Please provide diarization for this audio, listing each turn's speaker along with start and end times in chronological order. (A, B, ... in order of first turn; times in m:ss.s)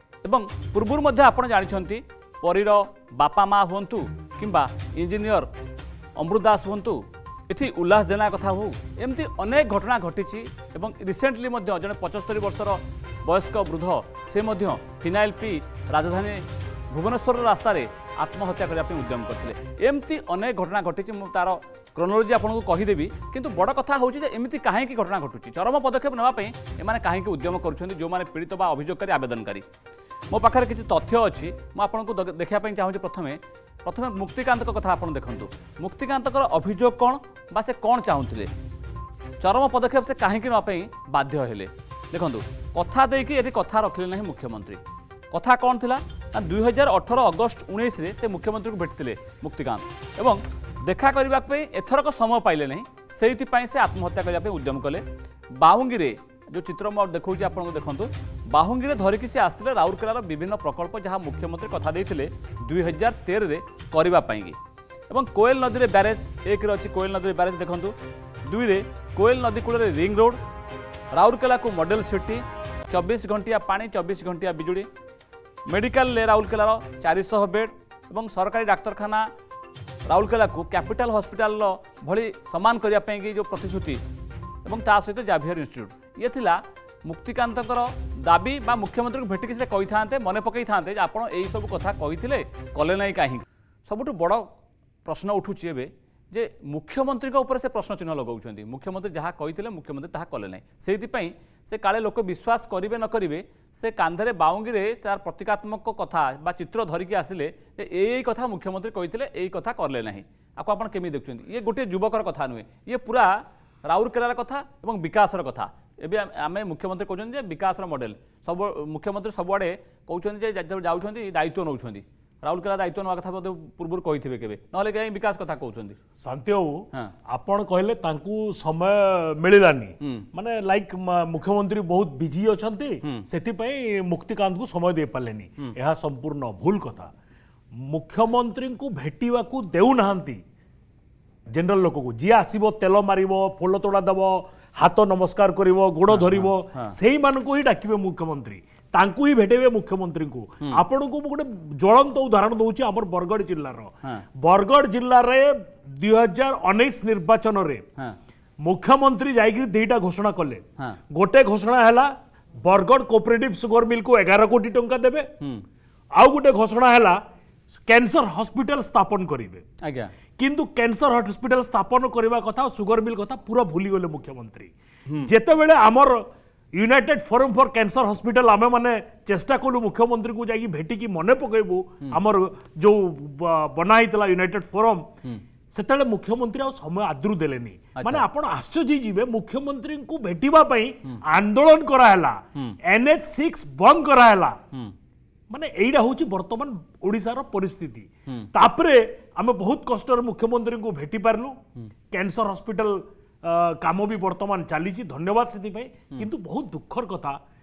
0:00.2-0:05.5 A
0:06.2-0:29.6 A
0:30.3-0:38.5 A
0:39.4-0:44.8 A
0:45.3-0:55.0 A
0:55.6-1:04.6 A
1:05.1-1:07.9 A
1:08.5-1:10.4 A
1:11.1-1:14.9 A
1:15.7-1:19.3 A
1:20.1-1:24.0 A
1:24.6-1:34.5 A
1:35.0-2:06.0 A
2:06.2-2:17.1 B
2:17.9-2:20.4 B
2:21.5-2:37.8 B
2:26.1-2:27.0 A
2:38.6-2:42.1 B
2:42.6-2:45.3 B
2:46.2-2:47.2 B
2:47.8-2:49.6 B
2:49.8-2:50.1 A
2:50.4-2:54.7 B
2:55.2-2:56.2 B
2:56.8-3:05.1 B
3:05.7-3:14.6 B
3:08.0-3:08.2 A
3:15.5-3:21.6 B
3:22.1-3:27.4 B